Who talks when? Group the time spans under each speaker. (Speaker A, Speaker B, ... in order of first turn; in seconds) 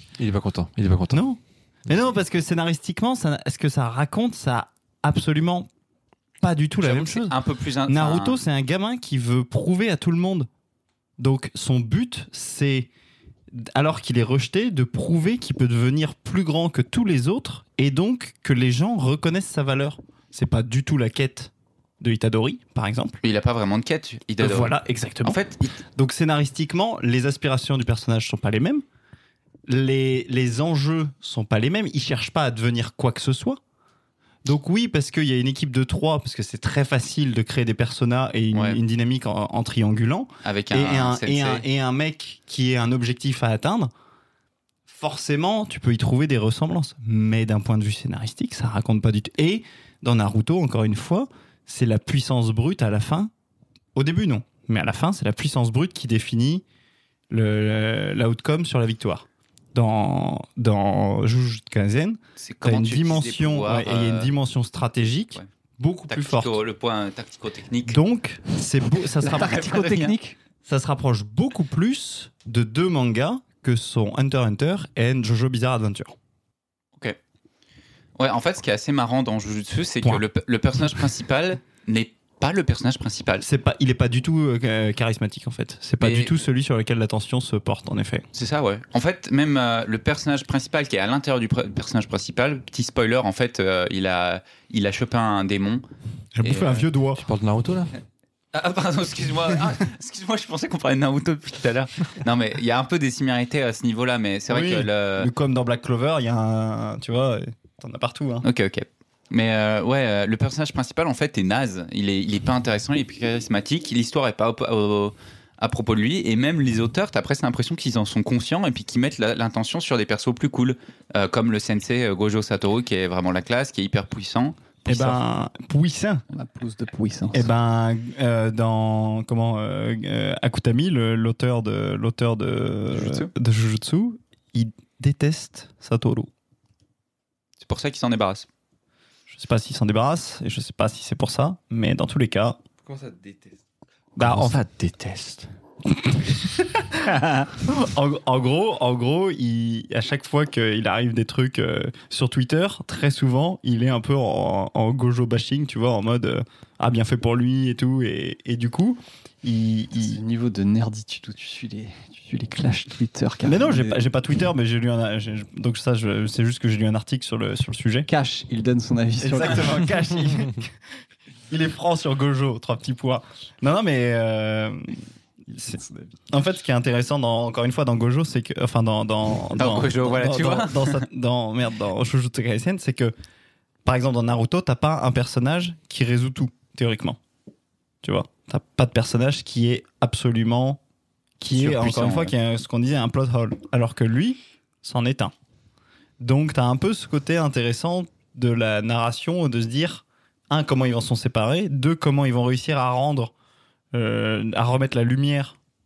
Speaker A: 0.2-1.2, 97.2-97.9, 142.8-143.5, 144.2-145.5
Speaker B: 1.1-5.7, 6.4-7.3, 7.9-10.5, 11.2-12.9, 13.5-23.2, 24.4-25.4, 26.0-28.8, 29.7-33.6, 34.5-43.9, 44.9-53.3, 54.0-56.6, 57.3-66.5, 67.9-69.7, 70.7-76.2, 83.4-88.3, 96.4-97.2, 104.5-108.5, 124.9-126.2, 127.3-136.3, 139.3-142.6, 144.2-144.6, 146.1-160.2, 163.4-168.1, 169.2-170.7, 171.5-175.0, 176.3-183.1, 183.8-187.2, 188.0-190.8, 191.4-195.3, 196.2-203.3, 203.9-205.6
Speaker C: 6.8-8.4, 23.2-25.7, 38.5-38.8, 40.5-41.7, 62.4-64.3, 66.1-68.0, 69.2-70.2, 78.2-83.5, 86.0-86.3, 88.3-95.8, 96.4-96.9, 98.5-105.3, 108.4-125.2, 132.9-133.3, 137.6-138.5, 179.6-181.0, 191.5-192.3
Speaker D: 69.2-70.4, 126.3-127.5, 160.0-164.0, 168.1-169.9, 175.5-176.1